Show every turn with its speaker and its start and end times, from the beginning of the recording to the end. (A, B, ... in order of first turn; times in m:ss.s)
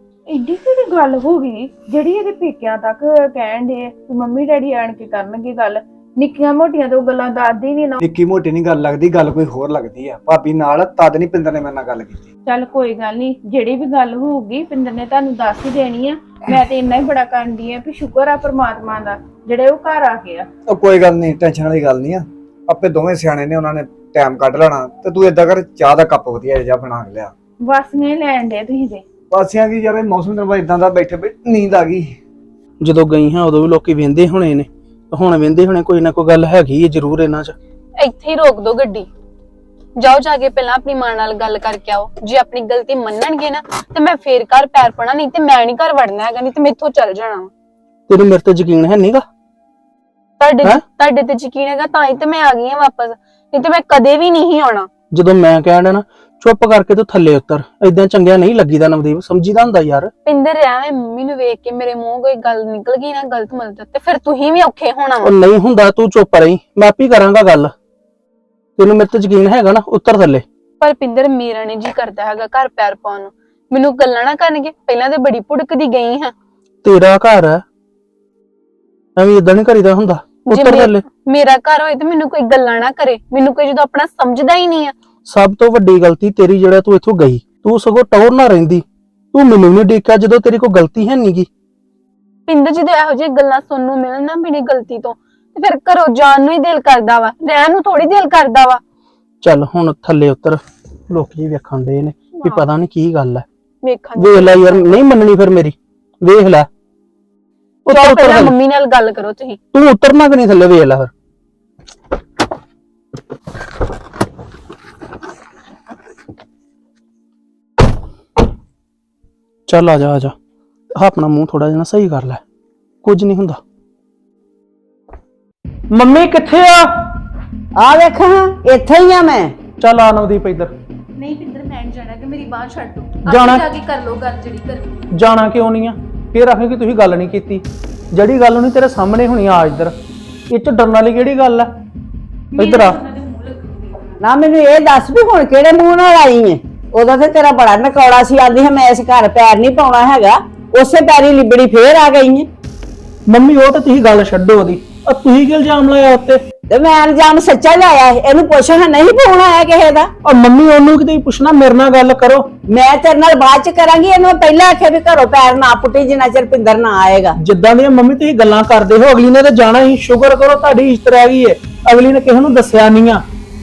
0:00.3-0:08.0 A
0:08.0-0:12.3 B
0:12.5-0:20.5 A
0:20.7-0:27.3 B
0:27.7-0:29.0 A
0:29.3-0:32.2 B
0:32.8-0:37.6 C
0:38.0-0:39.1 D
0:40.0-0:47.5 D
0:48.1-0:49.2 C
0:50.4-0:54.9 D
0:55.1-1:00.1 C
1:00.3-1:05.3 D
1:05.2-1:07.7 C
1:08.8-1:10.4 C
1:10.8-1:16.3 D
1:16.8-1:17.6 C
1:19.2-1:21.0 C
1:20.5-1:25.0 D
1:25.2-1:31.5 C
1:32.5-1:38.8 D
1:39.4-1:43.4 C
1:43.8-1:45.0 D
1:44.2-1:46.7 C
1:47.9-1:48.6 C
1:47.9-1:49.6 D
1:49.7-1:51.1 C
1:59.7-2:00.4 C
2:01.0-2:02.4 C
2:03.0-2:03.6 C
2:05.9-2:06.9 C
2:07.8-2:09.6 E
2:09.8-2:10.7 C
2:11.2-2:15.0 A
2:13.2-2:13.7 C
2:15.1-2:20.0 C
2:20.5-2:21.7 C
2:22.6-2:24.1 A
2:22.6-2:23.0 C
2:24.2-2:32.5 E
2:33.3-2:36.4 C
2:36.7-2:40.1 E
2:40.2-2:42.5 C
2:42.7-2:47.4 E
2:47.4-2:53.2 C